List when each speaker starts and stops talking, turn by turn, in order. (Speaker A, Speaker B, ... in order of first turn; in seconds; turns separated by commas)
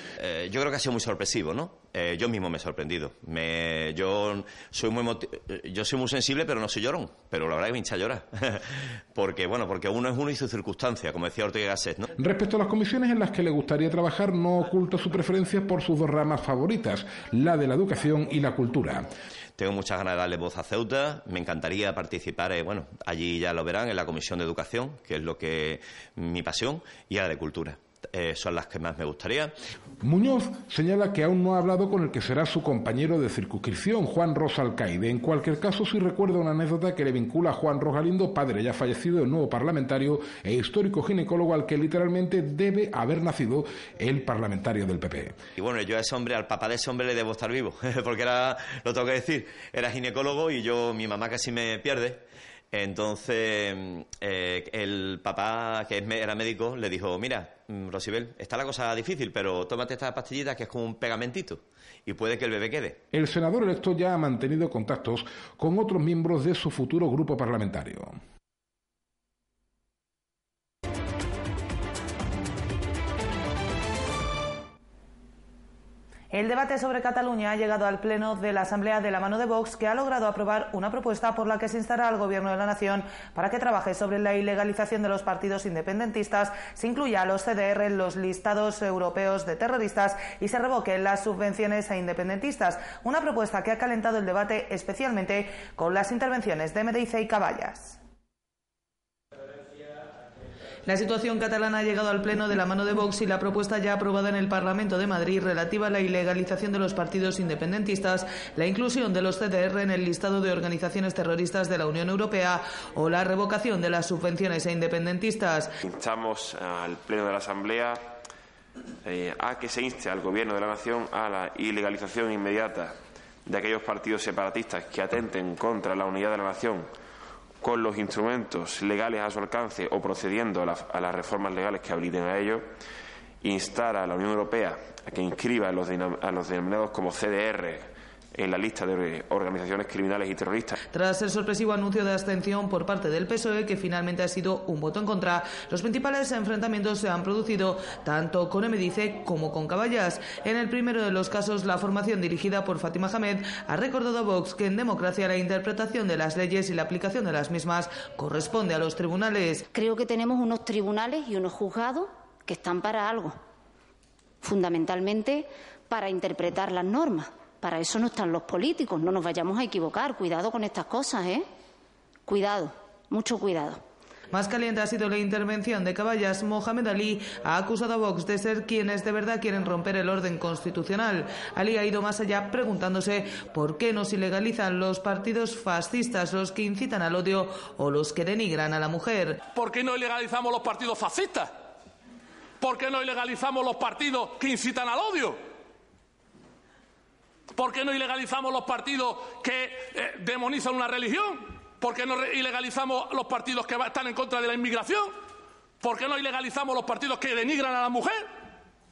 Speaker A: 0.2-12.1, Speaker B: 12.2-19.1, Speaker A: 19.6-29.5, Speaker B: 30.0-45.4, Speaker A: 45.6-63.0, Speaker B: 63.1-68.2, Speaker C: 76.3-98.0, Speaker C: 100.9-115.7, Speaker D: 115.8-117.9, Speaker D: 119.1-122.9, Speaker D: 123.5-126.8, Speaker D: 127.6-132.6, Speaker D: 133.4-137.8, Speaker D: 138.4-140.8, Speaker C: 140.9-159.6, Speaker E: 159.7-163.3, Speaker E: 164.4-171.4, Speaker E: 172.3-173.8, Speaker C: 174.3-189.4, Speaker F: 189.5-191.5, Speaker F: 192.6-195.4, Speaker F: 197.6-205.1, Speaker F: 205.8-208.2